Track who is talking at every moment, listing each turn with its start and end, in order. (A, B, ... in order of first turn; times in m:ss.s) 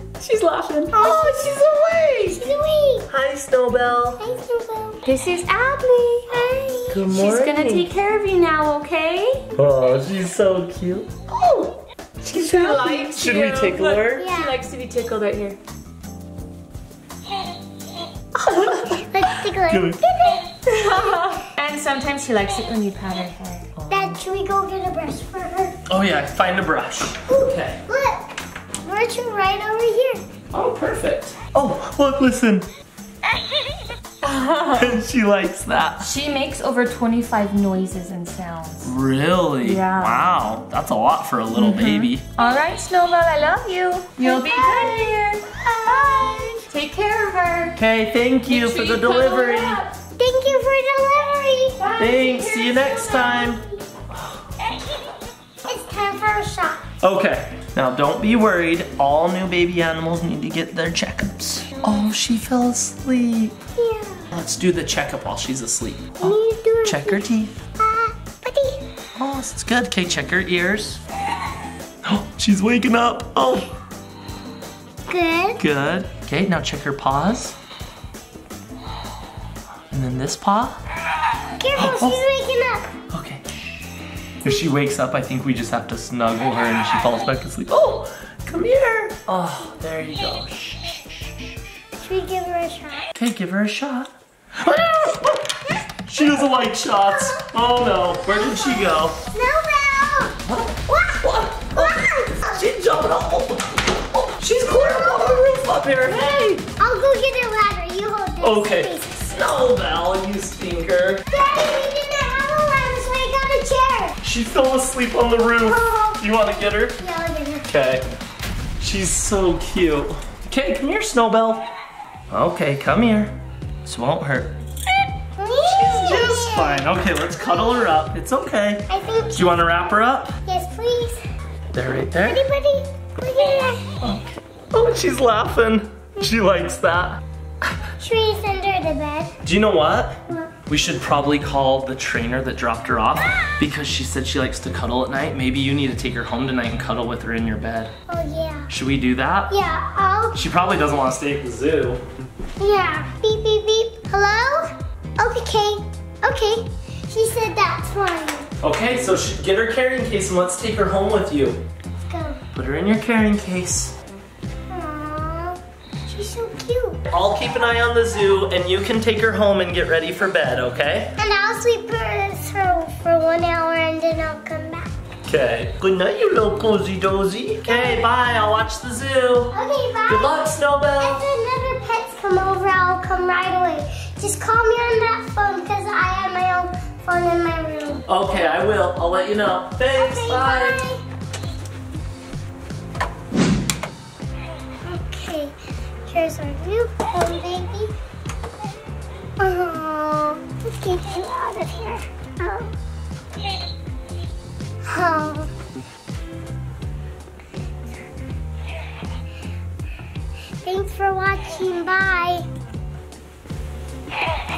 0:00.2-0:02.2 A
0:00.9-0:02.4 B
0:00.9-0:01.5 C
0:02.3-0:03.1 C
0:03.1-0:04.2 B
0:04.2-0:05.1 C
0:05.0-0:09.5 A
0:06.3-0:07.0 C
0:06.9-0:07.9 B
0:09.6-0:11.2 B
0:12.2-0:15.6 A
0:12.7-0:14.3 B
0:14.2-0:14.6 C
0:18.4-0:18.9 A
0:18.9-0:21.4 C
0:19.7-0:20.0 B
0:20.7-0:23.7 A
0:23.8-0:24.2 B
0:23.9-0:25.8 C
0:25.9-0:27.8 B
0:27.7-0:28.3 C
0:28.8-0:30.2 C
0:30.5-0:32.7 B
0:34.2-0:35.0 A
0:34.8-0:36.1 B
0:36.0-0:38.9 A
0:38.8-0:42.3 B
0:39.6-0:40.2 A
0:41.5-0:47.8 A
0:44.2-0:46.6 C
0:47.8-0:49.8 B
0:48.5-0:49.8 A
0:49.0-0:53.8 C
0:51.8-0:52.2 A
0:52.0-0:53.6 B
0:55.6-0:56.8 C
0:57.0-1:03.6 B
1:03.8-1:04.3 C
1:04.3-1:07.6 B
1:06.2-1:07.2 C
1:07.8-1:08.8 C
1:09.2-1:11.0 B
1:12.0-1:13.7 B
1:15.1-1:15.6 C
1:15.6-1:17.6 B
1:19.9-1:20.8 B
1:21.6-1:22.9 C
1:21.8-1:22.2 B
1:23.1-1:23.4 B
1:24.4-1:31.0 B
1:32.0-1:33.1 C
1:33.2-1:39.2 B
1:37.0-1:37.4 C
1:38.2-1:40.4 C
1:40.4-1:46.6 B
1:41.7-1:42.5 C
1:46.7-1:49.2 C
1:48.4-1:51.2 B
1:51.3-1:54.2 C
1:54.2-1:57.0 B
1:55.6-1:56.3 C
1:57.0-1:57.7 C
1:57.6-1:58.1 B
1:58.8-2:01.7 B
2:02.3-2:03.3 B
2:03.8-2:04.6 B
2:05.4-2:06.9 C
2:05.6-2:10.4 B
2:07.4-2:07.9 C
2:08.9-2:09.8 C
2:10.4-2:11.2 C
2:11.7-2:12.4 B
2:12.2-2:13.9 C
2:14.0-2:17.2 B
2:18.0-2:19.4 C
2:19.4-2:27.9 B
2:20.3-2:20.5 C
2:28.1-2:28.7 C
2:28.7-2:29.5 B
2:29.5-2:30.5 C
2:30.3-2:32.0 B
2:32.6-2:38.5 C
2:38.6-2:41.6 B
2:42.0-2:42.4 C
2:42.5-2:43.9 B
2:44.7-2:47.0 C
2:47.1-2:51.2 B
2:51.2-2:54.9 C
2:55.3-2:59.5 B
2:57.6-2:58.2 C
2:59.5-3:08.1 C
3:00.1-3:01.3 B
3:08.1-3:10.9 B
3:10.0-3:11.0 C
3:14.8-3:15.5 C
3:16.1-3:17.9 C
3:19.4-3:22.8 C
3:24.8-3:25.5 C
3:30.6-3:32.4 C